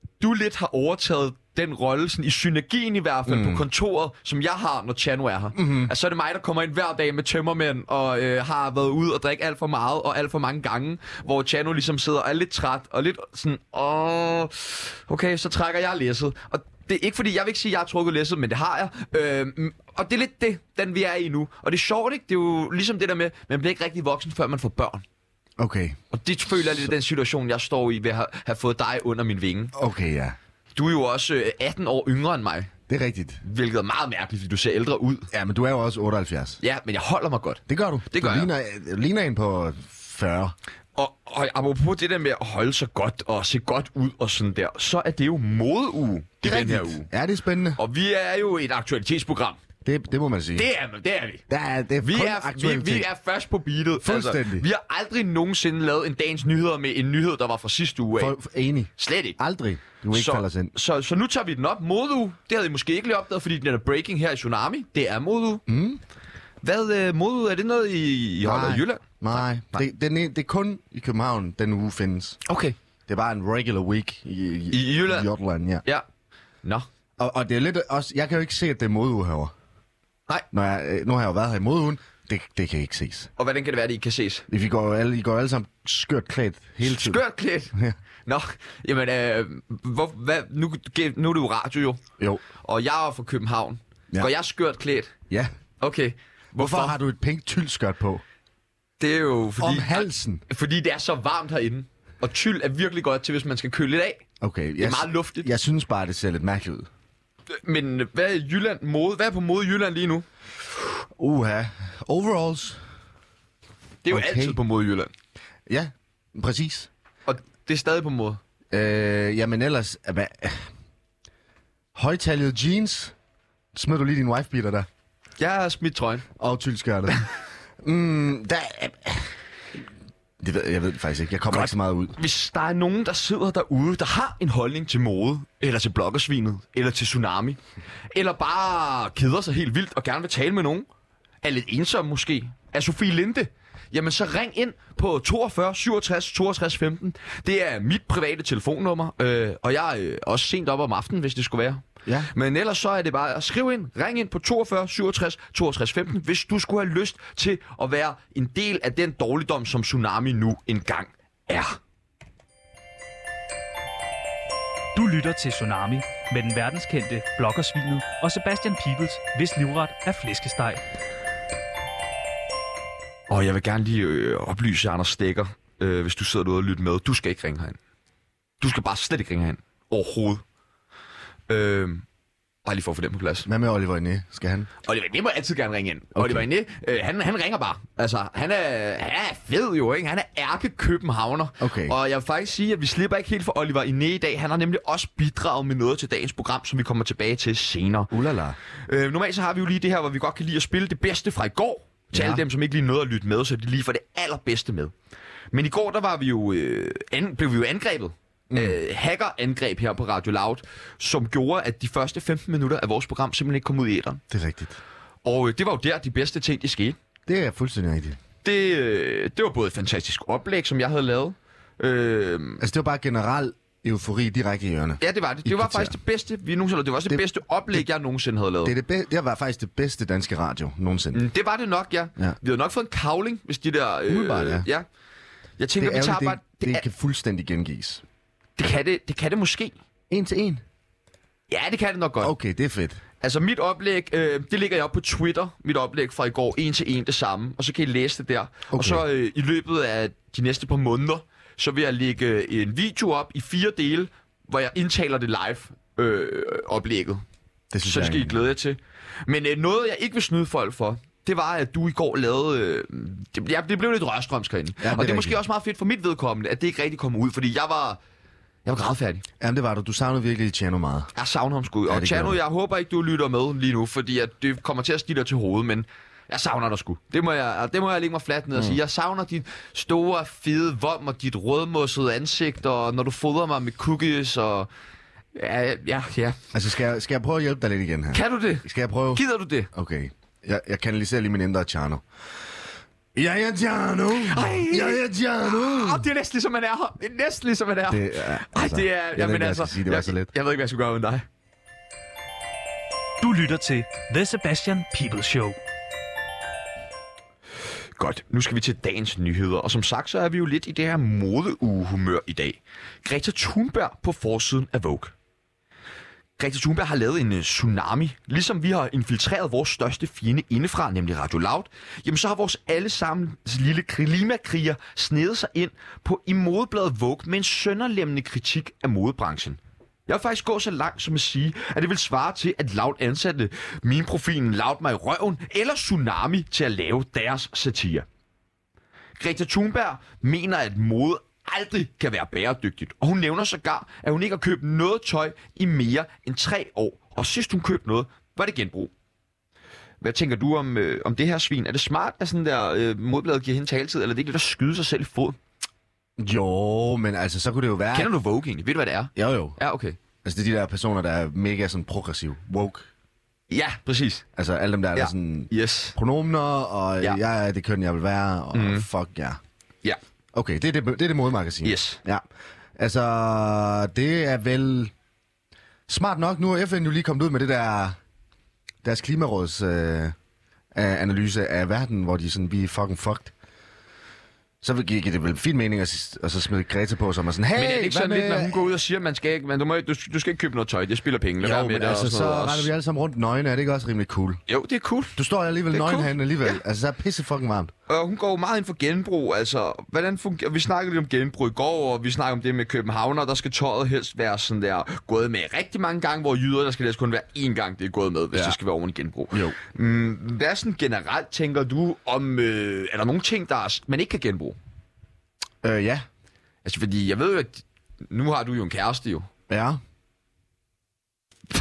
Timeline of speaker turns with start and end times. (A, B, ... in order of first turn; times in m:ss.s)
0:00.2-0:25.0 A
0:03.3-0:03.6 B
0:05.5-0:05.9 B
0:25.6-0:26.0 B
0:26.1-0:29.7 A
0:29.7-0:30.4 B
0:30.7-0:32.7 A
0:32.9-0:33.4 B
0:33.4-0:35.3 A
0:35.3-0:36.6 B
0:36.6-0:38.5 A
0:37.7-0:40.5 B
0:41.0-0:47.1 A
0:46.4-0:47.8 B
0:47.8-0:49.6 A
0:49.8-0:50.7 B
0:50.6-0:51.4 A
0:51.5-0:53.1 B
0:52.0-0:58.4 A
0:54.0-0:54.6 B
0:58.2-1:00.7 B
0:59.0-0:59.4 A
1:00.1-1:05.6 A
1:05.7-1:06.0 B
1:06.6-1:09.8 A
1:08.4-1:12.4 B
1:12.4-1:12.8 A
1:13.1-1:15.8 B
1:14.7-1:15.3 A
1:17.2-1:19.5 B
1:20.5-1:23.3 B
1:23.4-1:24.4 A
1:24.5-1:27.2 B
1:26.8-1:27.7 A
1:28.2-1:32.0 A
1:32.6-1:35.1 A
1:35.8-1:37.0 A
1:36.6-1:38.2 B
1:39.0-1:44.2 A
1:39.6-1:40.4 B
1:44.4-1:46.9 B
1:44.8-1:45.5 A
1:47.5-1:50.2 A
1:51.2-1:52.8 B
1:54.0-1:55.1 A
1:54.1-1:54.6 B
1:55.7-1:56.9 B
1:57.2-1:58.4 A
1:58.7-2:00.6 B
2:01.9-2:03.1 B
2:03.7-2:04.9 B
2:05.4-2:06.3 A
2:06.4-2:07.3 B
2:07.8-2:09.3 B
2:10.4-2:12.1 B
2:11.5-2:20.9 A
2:21.4-2:41.8 A
2:32.0-2:32.3 B
2:44.9-2:50.8 C
2:53.3-2:57.8 A
2:58.6-3:00.4 A
3:01.5-3:02.0 A
3:02.6-3:03.5 A
3:03.4-3:04.7 B
3:04.8-3:18.1 A
3:06.1-3:06.4 B
3:11.6-3:12.0 B
3:18.1-3:18.6 B
3:18.9-3:24.9 A
3:22.1-3:22.4 B
3:25.5-3:34.2 A
3:28.5-3:28.8 B
3:34.3-3:34.8 B
3:35.2-3:37.0 A
3:37.3-3:38.2 B
3:38.4-3:42.6 A
3:42.6-3:46.0 B
3:45.0-3:48.8 A
3:47.1-3:47.8 B
3:48.6-3:51.2 B
3:51.1-3:54.8 A
3:54.1-3:54.7 B
3:55.6-3:56.8 A
3:55.8-3:58.0 B
3:58.6-3:59.8 A
4:00.1-4:00.6 B
4:01.5-4:02.3 A
4:02.2-4:03.0 B
4:03.2-4:17.2 A
4:08.7-4:09.0 B
4:17.7-4:18.4 B
4:17.8-4:28.0 A
4:24.8-4:25.4 B
4:28.6-4:29.2 A
4:29.4-4:31.1 B
4:31.1-4:44.7 A
4:31.9-4:32.4 B
4:38.5-4:38.8 B
4:45.3-4:46.4 A
4:46.5-4:52.0 B
4:48.1-4:49.7 A
4:53.1-4:56.0 B
4:54.2-5:01.2 A
4:57.9-5:00.3 B
5:03.2-5:05.6 C
5:08.0-5:15.1 A
5:16.4-5:38.1 A
5:39.2-5:48.9 A
5:50.0-5:55.4 A
5:56.2-5:58.1 B
5:57.9-6:00.0 A
5:59.1-5:59.6 B
6:00.2-6:02.9 B
6:03.5-6:04.2 A
6:04.4-6:09.4 B
6:04.9-6:06.0 A
6:08.5-6:08.8 A
6:10.3-6:12.2 B
6:11.6-6:12.0 A
6:12.8-6:14.9 B
6:15.9-6:18.0 B
6:18.8-6:20.1 B
6:20.7-6:23.3 B
6:24.6-6:28.7 B
6:27.5-6:32.7 A
6:31.4-6:34.4 B
6:34.5-6:35.2 A
6:35.2-6:37.7 B
6:35.7-6:36.5 A
6:37.9-6:54.6 A
6:55.6-6:56.0 B
6:56.6-6:59.3 A
6:59.5-6:59.8 B